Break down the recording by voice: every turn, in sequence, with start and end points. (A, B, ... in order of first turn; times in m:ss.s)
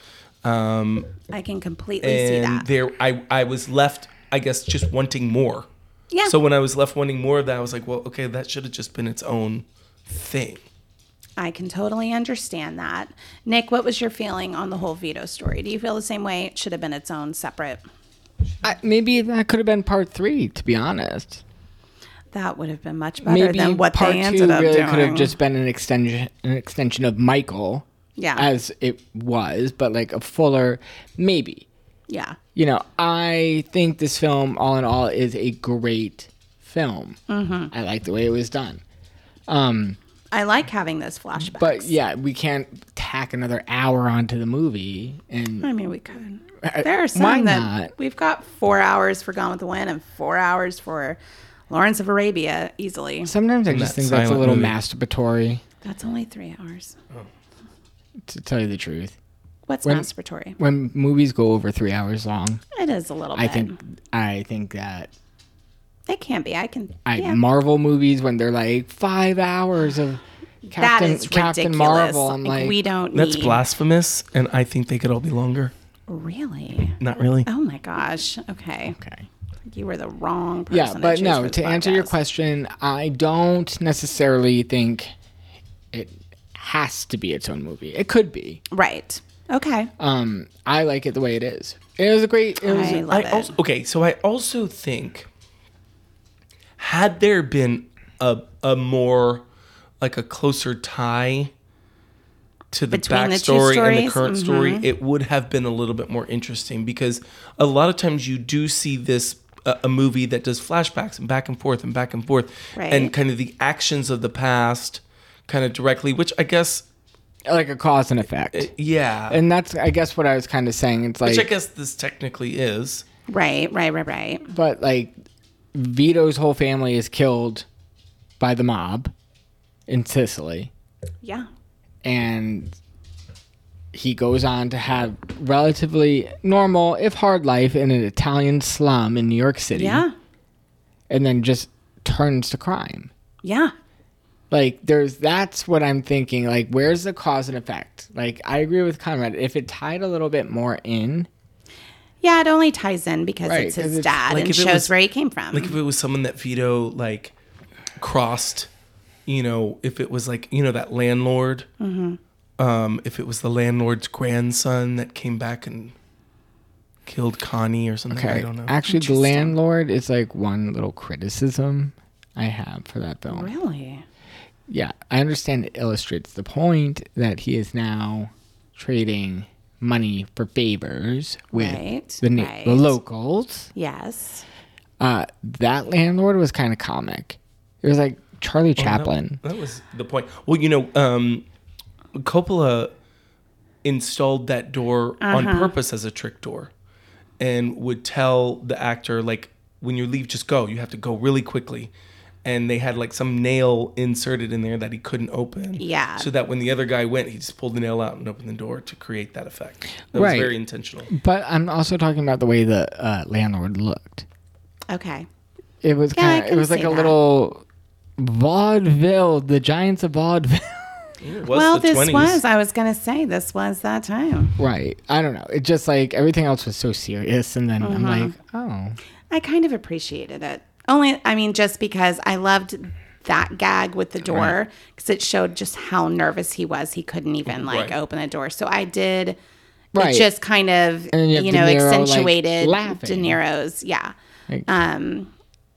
0:00.4-0:01.2 A
0:01.3-0:02.7 B
0:02.0-0:05.7 A
0:06.2-0:10.7 A
0:11.4-0:17.8 B
0:18.6-0:21.4 C
0:22.3-0:25.3 B
0:23.2-0:27.8 C
0:28.2-0:28.5 B
0:28.4-0:31.7 C
0:32.1-0:32.4 B
0:32.6-0:37.2 C
0:37.3-0:37.7 B
0:37.7-0:38.8 C
0:39.5-0:40.0 C
0:40.3-0:42.0 B
0:41.4-0:45.7 C
0:45.6-0:51.2 B
0:46.6-0:47.9 C
0:51.7-0:53.3 B
0:53.2-0:55.6 C
0:53.7-0:54.8 A
0:55.8-0:57.0 B
0:58.3-0:59.2 C
0:59.7-1:00.6 B
0:59.8-1:02.6 C
1:02.8-1:03.8 B
1:03.4-1:05.1 C
1:06.1-1:07.4 B
1:07.1-1:12.8 C
1:10.8-1:13.6 B
1:13.1-1:15.7 A
1:16.1-1:19.0 B
1:17.0-1:17.5 A
1:19.0-1:19.3 C
1:19.7-1:22.1 B
1:20.7-1:25.1 C
1:25.9-1:28.6 C
1:28.7-1:29.9 B
1:30.0-1:33.1 C
1:32.6-1:33.5 B
1:33.1-1:35.3 A
1:36.8-1:39.4 A
1:40.0-1:41.5 A
1:42.7-1:56.8 A
1:42.9-1:44.9 B
1:52.8-1:53.1 B
1:57.5-1:58.7 C
1:58.5-1:59.4 A
1:59.3-2:01.5 C
2:01.2-2:03.0 A
2:03.3-2:04.5 B
2:04.5-2:05.1 C
2:05.7-2:07.7 C
2:08.4-2:09.1 C
2:09.9-2:10.7 C
2:11.2-2:11.5 B
2:12.0-2:12.8 C
2:13.9-2:20.0 C
2:19.7-2:20.1 B
2:21.1-2:23.1 C
2:23.4-2:23.7 B
2:24.5-2:31.3 C
2:32.2-2:35.8 B
2:33.4-2:34.2 C
2:34.3-2:34.9 A
2:35.5-2:37.3 A
2:38.0-2:38.7 A
2:39.3-2:41.7 A
2:41.8-2:42.2 B
2:42.6-2:46.0 A
2:47.1-2:48.7 A
2:48.1-2:53.5 C
2:48.8-2:49.6 B
2:53.3-2:54.0 B
2:54.7-3:03.7 C
3:01.5-3:03.0 B
3:03.8-3:04.4 B
3:05.0-3:09.4 C
3:08.8-3:11.4 A
3:12.1-3:12.9 A
3:13.8-3:16.7 A
3:15.2-3:15.7 B
3:17.4-3:21.9 A
3:22.4-3:31.1 A
3:25.8-3:26.3 B
3:30.1-3:30.5 C
3:31.1-3:34.2 C
3:34.9-3:35.3 B
3:35.8-3:37.6 C
3:36.2-3:37.2 B
3:38.2-3:41.1 C
3:41.2-3:42.4 A
3:41.5-3:44.6 B
3:44.6-3:49.0 C
3:47.8-3:48.3 B
3:49.3-3:59.4 B
3:57.5-3:58.0 A
3:59.9-4:00.3 C
4:00.0-4:04.1 B
4:01.1-4:03.4 C
4:04.7-4:05.3 B